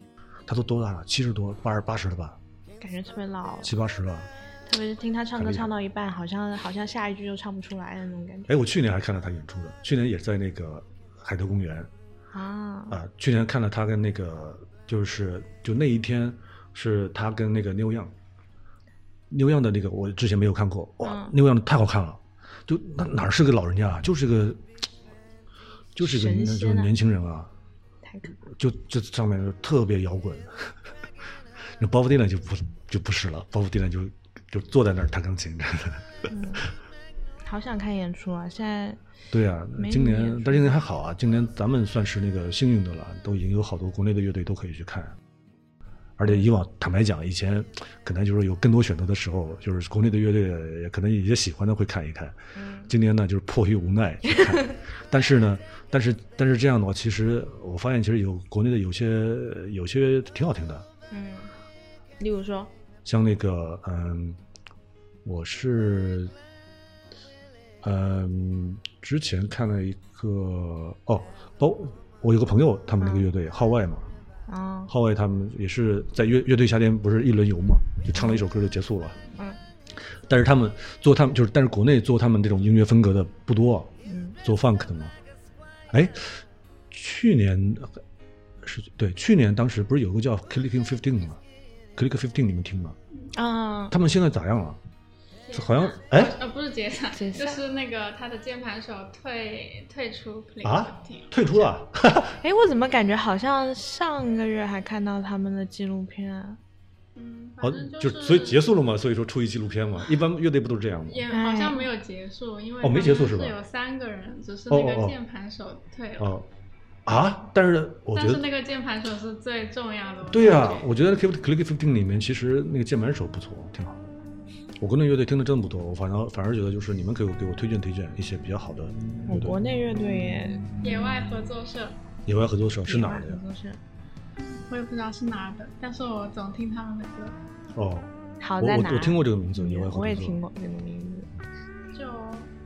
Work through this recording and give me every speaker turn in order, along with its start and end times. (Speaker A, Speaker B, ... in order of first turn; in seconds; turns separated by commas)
Speaker A: 0.5-2.4, Speaker B: 2.8-3.7, Speaker A: 3.6-4.3, Speaker B: 4.7-8.5, Speaker A: 5.4-5.7, Speaker A: 8.5-11.9, Speaker B: 12.3-13.0, Speaker A: 12.9-18.1, Speaker A: 19.3-24.7, Speaker B: 21.0-21.3, Speaker A: 25.9-27.5, Speaker B: 26.0-26.9, Speaker B: 28.1-28.4, Speaker A: 28.5-30.9, Speaker A: 31.6-36.3, Speaker B: 36.3-36.7, Speaker B: 37.4-39.0, Speaker A: 39.3-45.2, Speaker B: 39.8-40.9, Speaker A: 46.2-60.9, Speaker B: 52.5-52.9, Speaker B: 54.3-54.7, Speaker B: 61.1-61.5, Speaker B: 62.2-62.7, Speaker A: 63.0-64.4, Speaker A: 65.2-66.3, Speaker A: 67.8-74.1, Speaker B: 73.0-73.3, Speaker B: 74.5-74.9, Speaker A: 74.9-79.2, Speaker B: 78.2-78.4, Speaker A: 79.9-85.1, Speaker B: 84.1-84.4, Speaker A: 85.9-88.0, Speaker A: 88.6-91.4, Speaker A: 92.0-93.0, Speaker B: 93.3-94.0, Speaker A: 93.9-94.8, Speaker C: 95.5-101.5, Speaker A: 95.5-96.4, Speaker B: 97.2-97.6, Speaker A: 100.6-102.4, Speaker B: 102.4-106.6, Speaker C: 107.2-108.7, Speaker A: 107.6-111.3, Speaker C: 111.1-116.4, Speaker B: 111.3-111.8, Speaker A: 112.8-113.6, Speaker A: 114.7-115.2, Speaker A: 116.2-116.5, Speaker A: 117.1-118.5, Speaker C: 118.1-120.9, Speaker A: 120.3-124.1, Speaker A: 124.8-129.6, Speaker B: 129.3-130.7, Speaker C: 130.8-132.0, Speaker A: 132.3-133.4, Speaker B: 132.9-133.8, Speaker C: 134.5-137.4, Speaker A: 137.7-140.4, Speaker B: 138.4-141.3, Speaker C: 141.9-142.5